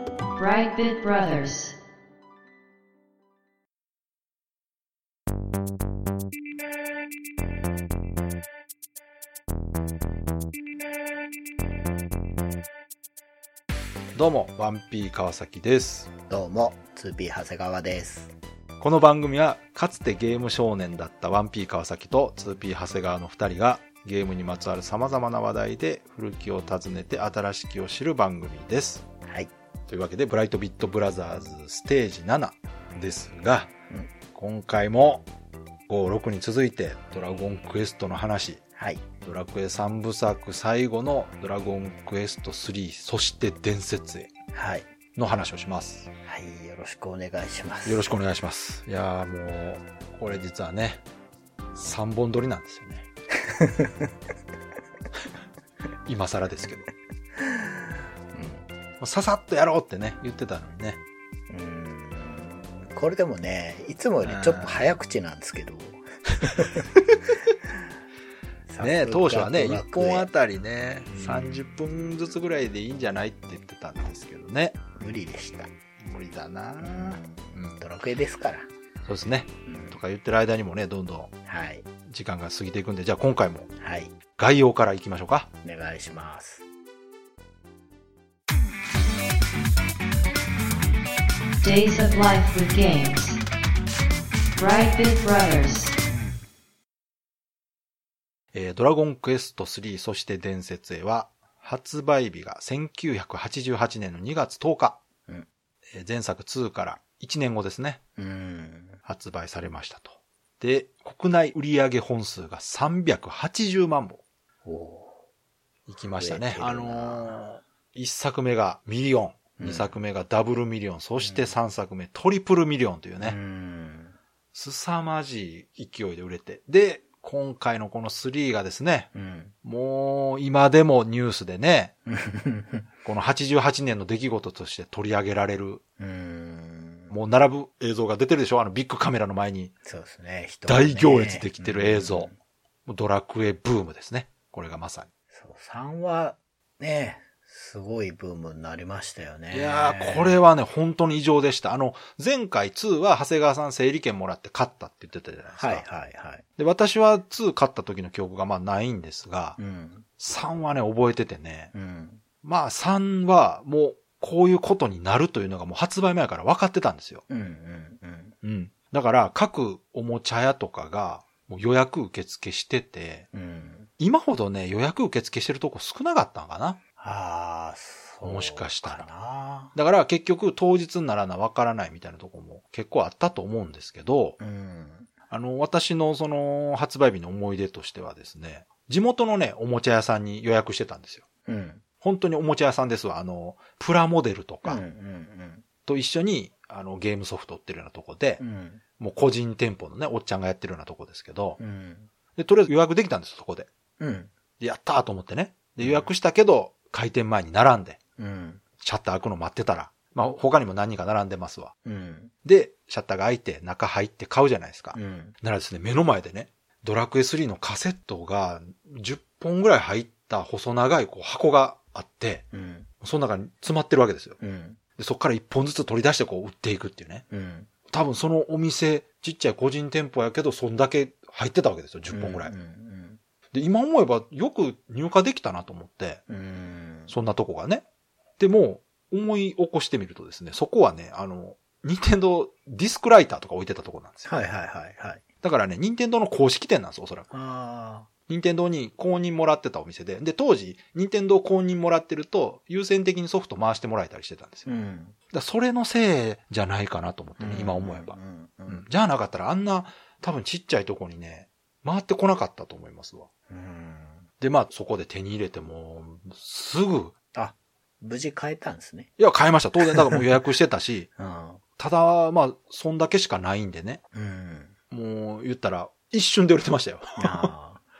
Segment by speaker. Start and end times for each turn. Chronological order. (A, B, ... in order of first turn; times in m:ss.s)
0:00.4-0:01.8 A
0:14.1-0:16.1 B
0:16.3-0:18.3 C
0:18.8-0:29.0 B
0:29.2-0:29.5 C
0:29.9-0:33.7 B
0:34.3-0:35.3 B
0:35.9-0:38.6 B
0:38.7-0:39.0 C
0:39.2-0:44.3 B
0:44.5-0:44.9 C
0:45.2-0:46.1 B
0:46.2-0:48.0 C
0:47.8-0:51.0 B
0:51.7-0:53.0 B
0:53.4-0:54.1 C
0:56.1-0:56.9 B
0:57.4-0:58.7 C
0:59.0-1:01.0 B
1:01.5-1:06.9 C
1:04.2-1:04.8 B
1:06.5-1:06.7 B
1:08.7-1:10.3 C
1:08.8-1:14.8 B
1:11.1-1:11.6 C
1:15.0-1:15.7 C
1:16.0-1:17.8 B
1:16.8-1:18.7 C
1:19.0-1:21.3 B
1:19.6-1:20.0 C
1:21.4-1:21.8 C
1:22.0-1:23.7 B
1:23.8-1:24.1 C
1:24.4-1:25.5 B
1:25.6-1:26.6 C
1:31.6-1:33.4 A
1:34.6-1:36.0 A
1:38.5-1:45.0 B
1:45.9-1:48.0 B
1:48.2-1:49.0 C
1:49.0-1:54.2 B
1:54.6-1:55.2 C
1:55.9-2:03.4 B
1:56.1-1:57.4 C
1:59.6-2:00.0 C
2:01.2-2:01.6 C
2:03.2-2:04.2 C
2:04.5-2:09.1 B
2:09.1-2:09.5 C
2:09.6-2:11.9 B
2:12.1-2:12.9 C
2:13.0-2:15.8 B
2:16.0-2:17.1 C
2:17.1-2:19.7 B
2:19.8-2:22.4 C
2:20.7-2:22.3 B
2:22.8-2:25.1 B
2:25.3-2:30.4 C
2:29.5-2:35.8 B
2:35.6-2:36.4 C
2:36.6-2:39.6 B
2:39.6-2:40.1 C
2:40.2-2:41.7 B
2:41.7-2:42.2 C
2:42.4-2:47.2 B
2:47.3-2:48.4 C
2:48.4-2:53.3 B
2:53.3-2:53.9 C
2:54.0-2:56.8 B
2:57.0-2:59.7 C
2:58.2-2:59.1 B
2:59.7-3:04.4 B
3:04.4-3:05.1 C
3:05.3-3:11.2 B
3:11.4-3:11.8 C
3:12.0-3:14.8 B
3:14.6-3:15.6 C
3:15.8-3:18.4 B
3:18.4-3:18.8 C
3:19.0-3:21.6 B
3:21.6-3:22.1 C
3:22.4-3:23.7 B
3:24.0-3:24.3 C
3:24.6-3:28.0 B
3:25.8-3:26.1 C
3:28.2-3:28.6 C
3:28.8-3:31.7 B
3:31.8-3:32.3 C
3:32.4-3:42.5 B
3:34.9-3:35.3 C
3:42.5-3:42.9 C
3:43.0-3:44.4 B
3:44.4-3:44.8 C
3:45.0-3:47.2 B
3:47.3-3:47.7 C
3:47.9-3:52.5 B
3:52.1-3:53.2 C
3:53.5-3:56.2 B
3:56.3-3:57.1 C
3:57.1-3:57.8 B
3:58.4-4:04.3 B
4:04.2-4:05.2 C
4:05.4-4:07.3 B
4:07.3-4:08.1 C
4:08.3-4:14.7 B
4:14.6-4:15.2 C
4:15.3-4:23.3 B
4:17.4-4:18.8 C
4:23.5-4:24.3 C
4:24.4-4:27.1 B
4:27.3-4:29.1 C
4:29.2-4:31.1 B
4:29.8-4:30.2 C
4:31.2-4:31.6 C
4:31.8-4:34.0 B
4:34.1-4:34.7 C
4:34.9-4:37.5 B
4:37.2-4:37.8 C